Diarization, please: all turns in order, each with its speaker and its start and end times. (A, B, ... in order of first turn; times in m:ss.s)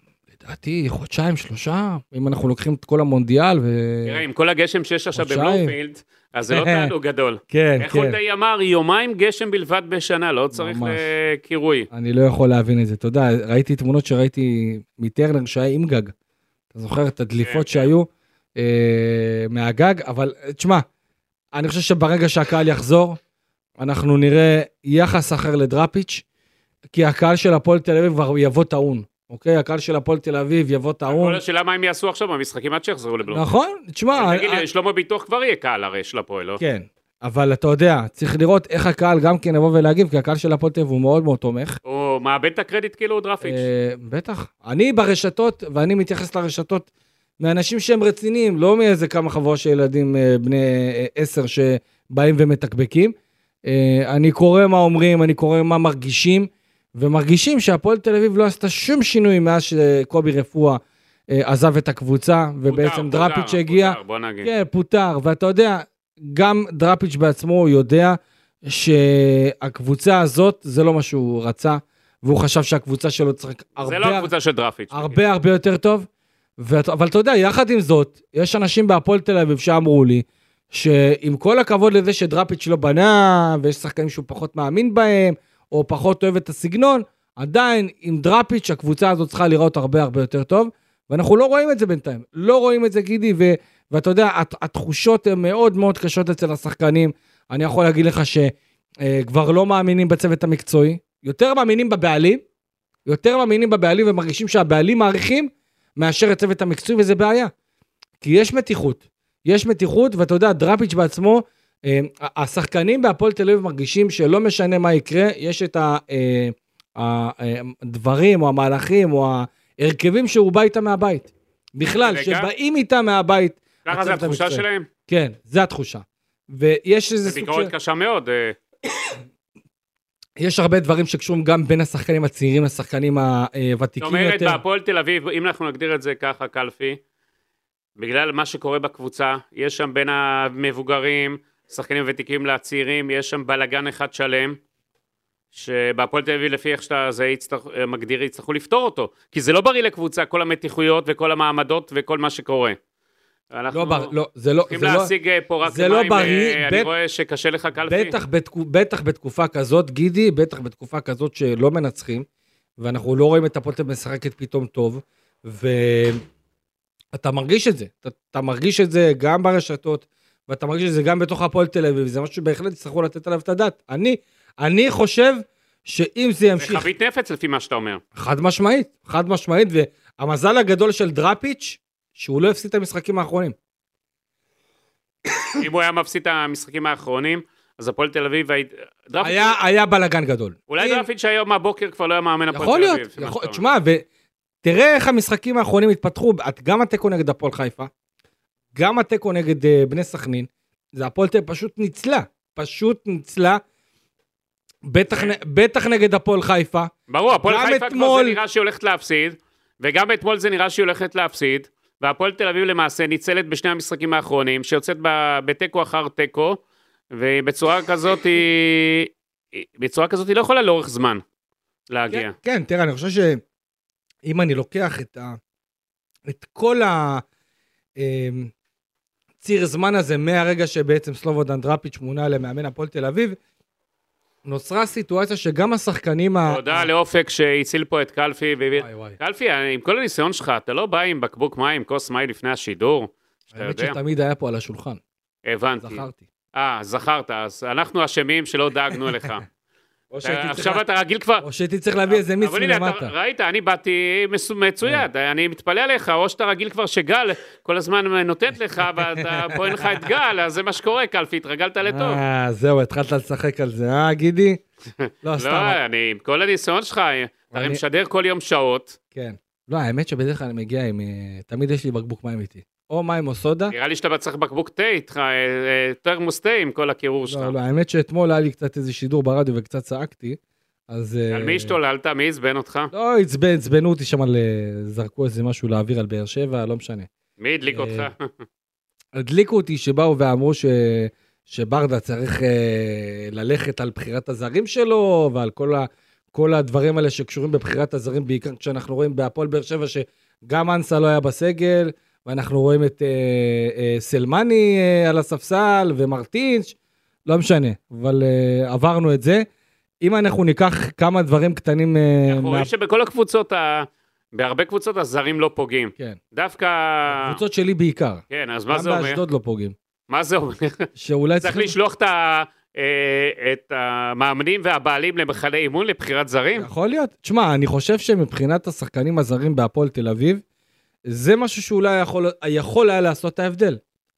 0:00.4-0:04.2 A
0:04.0-0:11.9 B
0:05.2-0:05.7 A
0:06.5-0:06.9 A
0:07.5-0:08.2 A
0:10.5-0:11.0 A
0:11.9-0:16.1 A
0:16.7-0:20.8 A
0:17.4-0:17.9 B
0:21.5-0:23.2 A
0:23.8-0:26.2 A
0:26.9-0:31.4 A
0:31.1-0:33.5 B
0:33.3-0:34.6 A
0:34.1-0:36.6 B
0:36.6-0:41.8 A
0:41.8-0:43.7 B
0:43.4-0:46.9 A
0:47.4-0:53.1 A
0:53.6-1:14.3 A
1:02.7-1:04.5 B
1:13.8-1:15.2 B
1:14.9-1:16.1 A
1:16.6-1:42.4 A
1:43.1-1:47.5 A
1:48.2-2:07.7 A
2:01.9-2:02.5 B
2:03.9-2:04.9 B
2:07.2-2:08.6 B
2:10.4-2:14.6 A
2:14.0-2:17.0 B
2:18.0-2:24.6 B
2:25.5-2:32.8 B
2:33.5-2:34.1 B
2:33.7-2:35.1 A
2:34.7-2:38.2 B
2:35.6-2:36.9 A
2:37.9-2:42.3 A
2:42.8-2:46.2 A
2:47.1-2:56.9 A
2:56.6-2:58.0 B
2:58.2-3:03.6 A
3:05.6-3:09.6 B
3:09.2-3:11.1 A
3:10.7-3:13.6 B
3:12.5-3:14.0 A
3:14.6-3:17.9 A
3:18.7-3:23.6 A
3:24.8-3:28.4 A
3:27.1-3:36.6 B
3:37.1-3:41.2 B
3:41.9-3:42.3 B
3:42.1-3:43.4 A
3:44.2-3:45.4 A
3:46.3-3:47.2 A
3:48.0-3:48.5 A
3:49.4-3:53.4 A
3:54.4-3:56.9 A
3:56.5-4:04.0 B
3:58.8-3:59.2 A
4:03.5-4:05.0 A
4:05.5-4:09.5 B
4:05.8-4:06.2 A
4:10.1-4:10.8 A
4:10.2-4:11.4 B
4:11.4-4:13.1 A
4:12.1-4:22.2 B
4:19.2-4:19.9 A
4:21.8-4:24.6 A
4:25.0-4:29.0 B
4:25.2-4:25.8 A
4:27.5-4:27.8 A
4:29.1-4:33.7 A
4:33.7-4:37.5 B
4:37.3-4:40.4 A
4:40.9-4:41.8 A
4:41.3-4:42.9 B
4:42.9-4:47.1 A
4:47.4-4:48.3 B
4:47.7-4:48.1 A
4:49.2-5:06.8 A
5:07.3-5:09.4 A
5:10.0-5:12.7 A
5:12.3-5:17.4 B
5:17.1-5:19.8 A
5:18.3-5:19.2 B
5:20.1-5:20.9 B
5:21.0-5:21.8 A
5:21.4-5:26.7 B
5:26.6-5:30.4 A
5:31.1-5:33.8 A